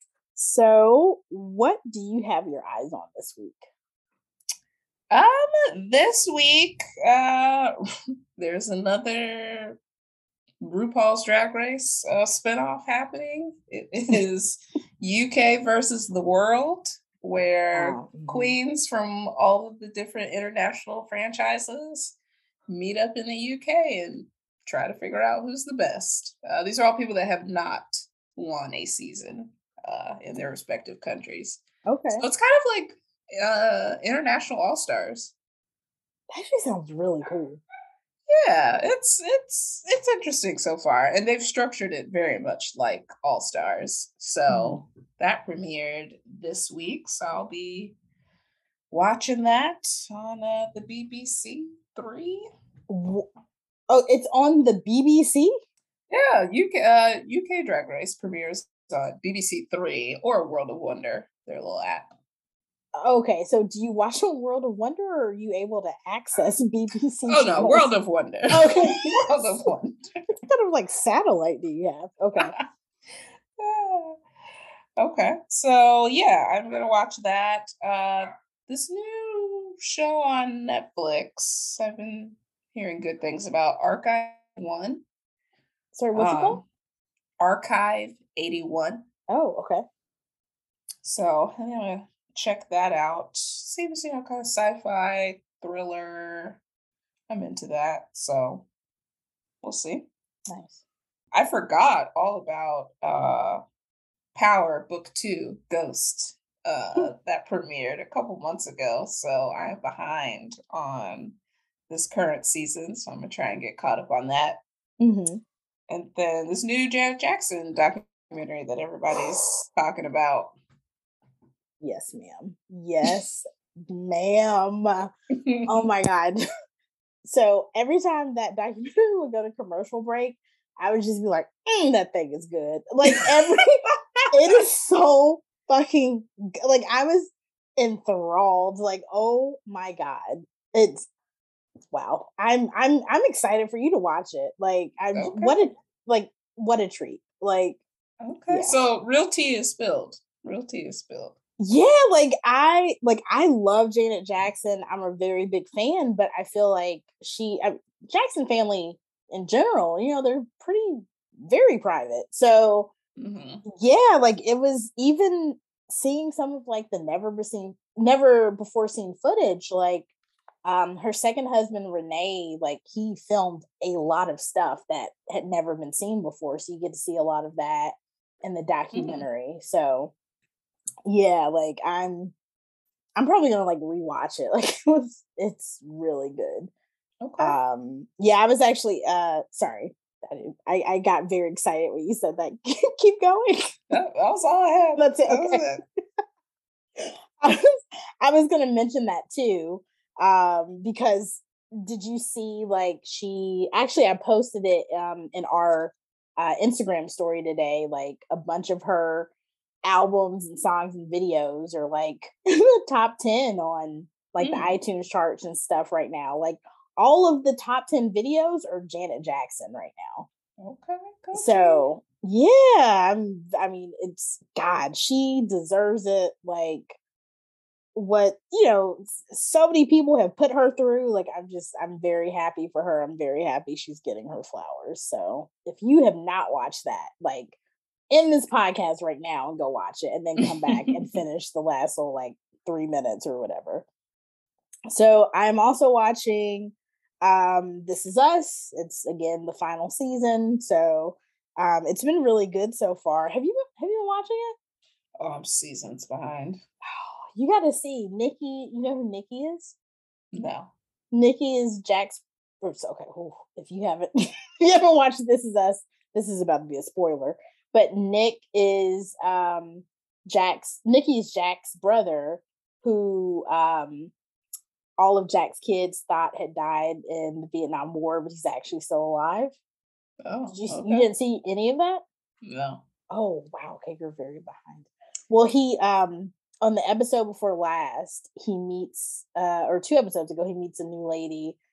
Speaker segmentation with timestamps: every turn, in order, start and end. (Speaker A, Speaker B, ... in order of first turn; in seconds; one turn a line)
Speaker A: 0.3-3.6
Speaker B: 5.1-7.7
Speaker B: 8.3-9.8
Speaker B: 10.6-22.1
Speaker A: 17.7-18.6
Speaker B: 22.7-31.6
Speaker A: 31.9-32.2
Speaker B: 32.2-35.3
Speaker A: 36.3-37.6
Speaker B: 38.3-48.0
Speaker A: 44.5-44.8
Speaker B: 48.9-52.5
Speaker A: 52.9-53.3
Speaker A: 53.9-55.5
Speaker B: 56.1-62.1
Speaker A: 63.0-67.9
Speaker B: 67.3-70.1
Speaker A: 68.5-69.7
Speaker A: 70.5-72.5
Speaker B: 72.4-72.7
Speaker B: 73.6-74.2
Speaker B: 75.0-85.0
Speaker A: 85.9-86.6
Speaker B: 86.1-86.6
Speaker B: 87.4-89.0
Speaker A: 89.3-89.8
Speaker B: 91.0-96.6
Speaker B: 97.3-98.7
Speaker B: 99.6-100.1
Speaker A: 100.5-100.8
Speaker B: 101.3-103.6
Speaker B: 104.3-111.4
Speaker B: 111.9-114.6
Speaker A: 115.0-115.4
Speaker B: 115.9-120.5
Speaker A: 121.8-125.1
Speaker B: 125.3-125.7
Speaker A: 125.7-126.4
Speaker A: 127.2-141.1
Speaker B: 133.9-134.3
Speaker A: 141.9-147.8
Speaker B: 145.1-145.7
Speaker B: 148.2-151.4
Speaker A: 148.5-148.8
Speaker A: 151.6-162.9
Speaker B: 163.2-163.6
Speaker A: 163.8-170.1
Speaker A: 170.6-180.1
Speaker B: 178.9-179.2
Speaker A: 181.1-182.3
Speaker A: 183.2-186.7
Speaker B: 187.2-187.6
Speaker A: 187.4-193.7
Speaker B: 193.9-195.8
Speaker A: 195.0-195.7
Speaker A: 197.0-197.6
Speaker A: 198.2-209.3
Speaker A: 209.8-220.3
Speaker B: 214.4-214.7
Speaker B: 220.6-221.9
Speaker A: 221.3-227.0
Speaker A: 227.9-237.6
Speaker A: 238.1-243.8
Speaker B: 240.4-240.9
Speaker A: 244.9-254.5
Speaker B: 255.2-256.6
Speaker A: 256.8-259.7
Speaker B: 260.3-260.7
Speaker A: 261.1-274.1
Speaker A: 275.0-279.6
Speaker B: 280.2-281.1
Speaker A: 280.5-282.0
Speaker B: 282.4-282.8
Speaker A: 283.1-291.6